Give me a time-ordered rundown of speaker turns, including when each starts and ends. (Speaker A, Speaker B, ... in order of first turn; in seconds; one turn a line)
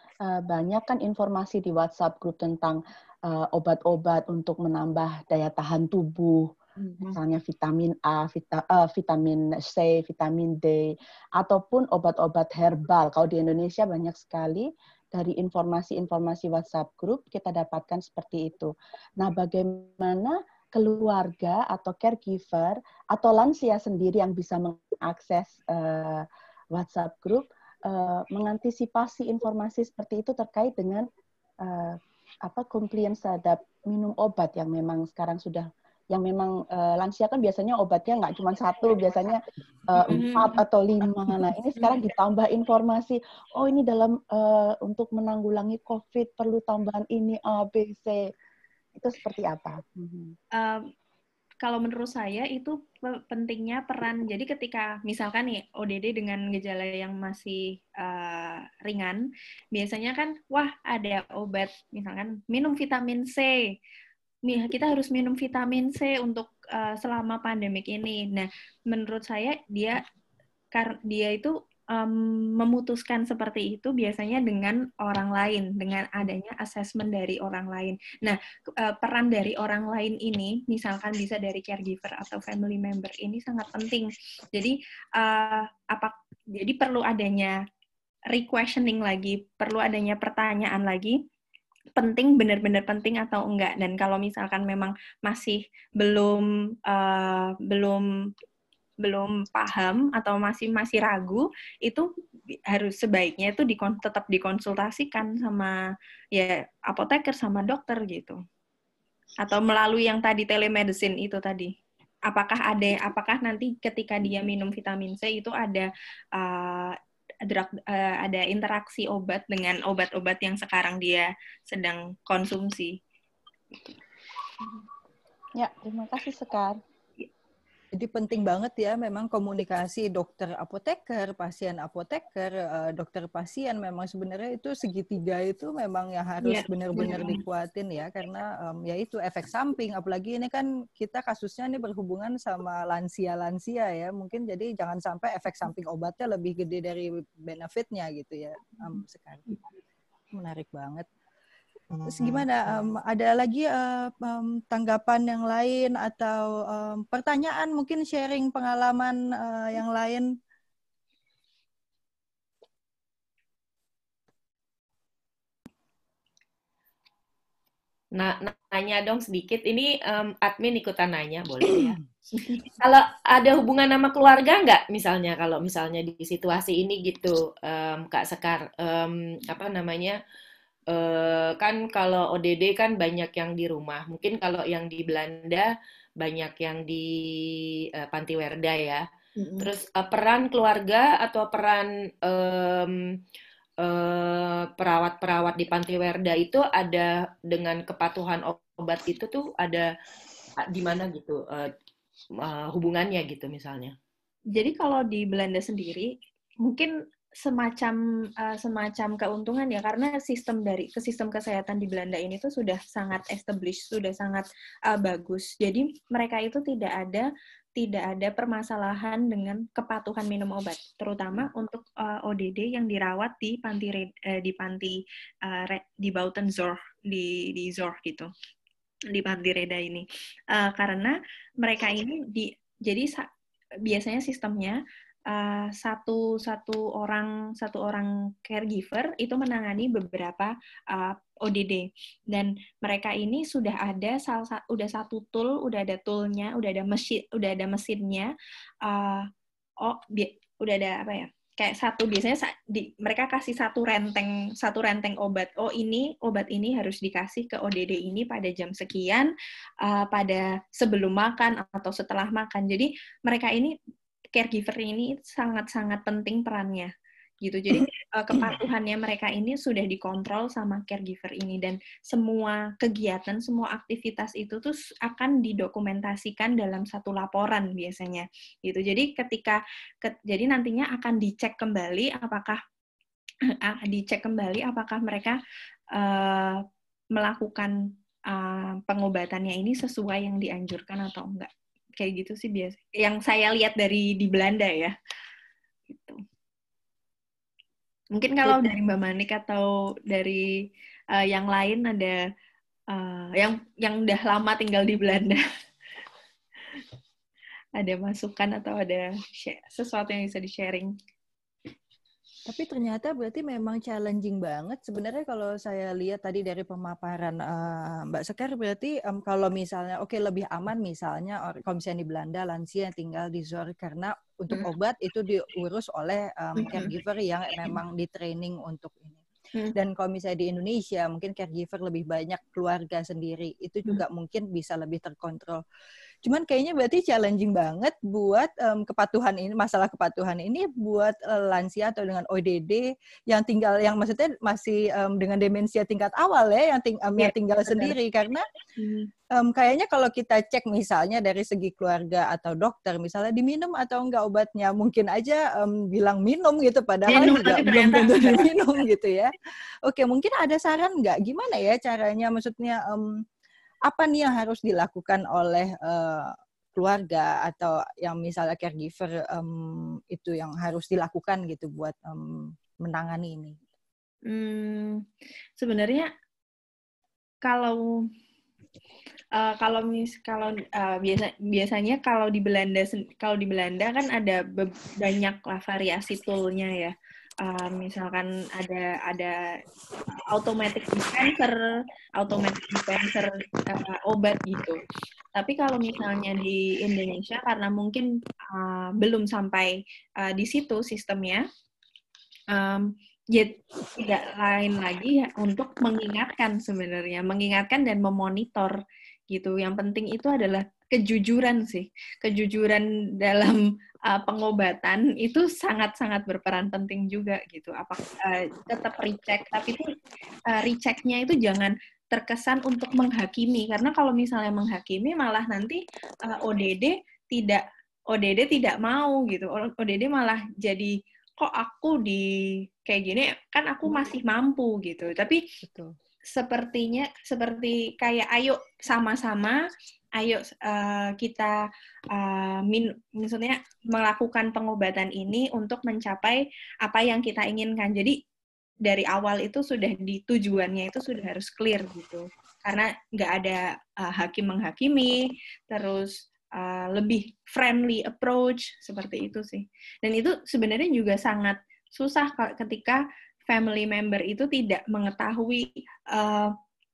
Speaker A: 0.2-31.1
Speaker A: 31.6-48.2
Speaker B: 40.0-40.6
Speaker A: 49.0-50.4
Speaker B: 50.6-50.9
Speaker B: 51.6-63.7
Speaker B: 64.5-70.0
Speaker B: 70.7-87.6
Speaker B: 88.3-91.2
Speaker B: 92.0-98.1
Speaker B: 99.0-102.1
Speaker B: 102.7-105.8
Speaker B: 106.3-108.4
Speaker B: 109.4-111.7
Speaker B: 112.3-123.0
Speaker A: 125.6-126.8
Speaker C: 127.9-149.5
Speaker B: 136.4-137.4
Speaker C: 150.3-151.1
Speaker C: 152.1-160.3
Speaker D: 168.1-172.0
Speaker D: 172.7-180.2
Speaker D: 180.9-189.0
Speaker B: 189.4-189.7
Speaker D: 189.6-193.2
Speaker D: 193.8-199.9
Speaker D: 200.6-201.7
Speaker D: 202.3-203.9
Speaker B: 204.5-206.1
Speaker B: 206.6-228.3
Speaker B: 229.1-233.3
Speaker B: 233.8-248.3
Speaker B: 248.8-249.3
Speaker B: 249.8-259.3
Speaker B: 259.8-263.7
Speaker B: 264.4-282.6
Speaker B: 283.5-285.4
Speaker B: 285.9-286.6
Speaker B: 287.1-294.9
Speaker B: 295.9-296.2
Speaker B: 298.1-300.5
Speaker B: 301.1-302.2
Speaker B: 302.9-305.4
Speaker B: 307.8-310.9
Speaker C: 312.4-329.2
Speaker B: 326.6-326.9
Speaker C: 329.7-335.6
Speaker C: 336.2-348.4
Speaker B: 347.2-347.9
Speaker B: 348.8-349.1
Speaker C: 349.3-359.3
Speaker B: 357.1-358.5
Speaker C: 359.9-363.1
Speaker C: 363.9-373.6
Speaker B: 374.3-375.0
Speaker B: 375.6-376.1
Speaker B: 377.4-378.0
Speaker B: 379.4-389.4
Speaker B: 390.3-394.8
Speaker B: 395.4-401.4
Speaker B: 402.5-408.8
Speaker B: 409.3-419.9
Speaker B: 420.5-432.2
Speaker B: 432.9-435.4
Speaker C: 435.6-435.9
Speaker B: 436.3-439.6
Speaker B: 440.2-448.2
Speaker B: 448.9-466.5